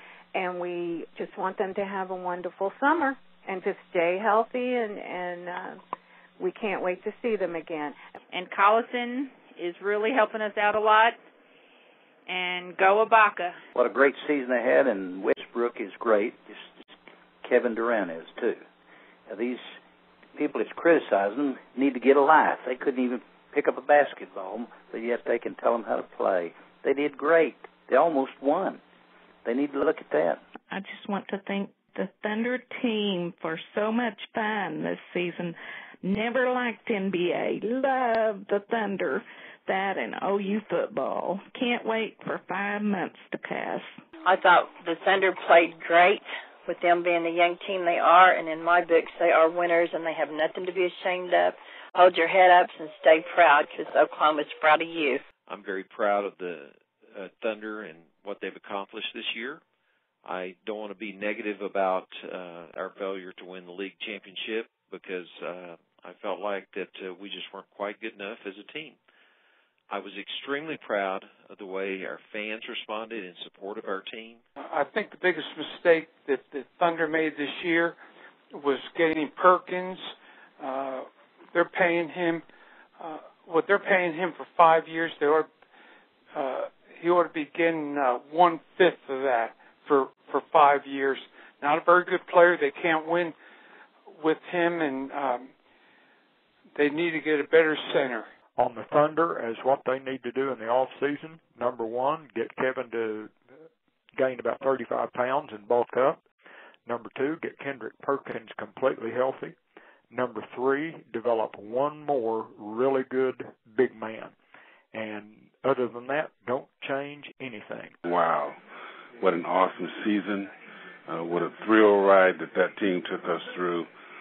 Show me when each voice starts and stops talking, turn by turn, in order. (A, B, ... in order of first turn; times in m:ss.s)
0:00.3-0:05.8 A
0:06.4-0:08.0 A
0:08.3-0:11.2 B
0:12.3-0:13.6 B
0:13.7-0:16.8 C
0:17.4-0:18.6 C
0:19.3-0:19.8 C
0:20.4-0:28.8 C
0:29.4-0:30.4 C
0:30.7-0:43.9 D
0:44.2-0:55.2 E
0:55.5-0:59.6 F
1:00.2-1:09.0 F
1:09.9-1:14.4 F
1:14.7-1:18.0 G
1:18.5-1:20.0 G
1:20.6-1:22.4 G
1:23.0-1:25.5 G
1:26.3-1:33.3 G
1:34.2-1:35.5 G
1:36.8-1:38.3 G
1:38.6-1:43.3 H
1:44.2-1:46.2 H
1:46.8-1:49.6 H
1:50.1-1:54.3 H
1:54.9-1:57.9 H
1:58.0-1:58.6 I
1:59.2-2:00.5 I
2:01.1-2:03.9 I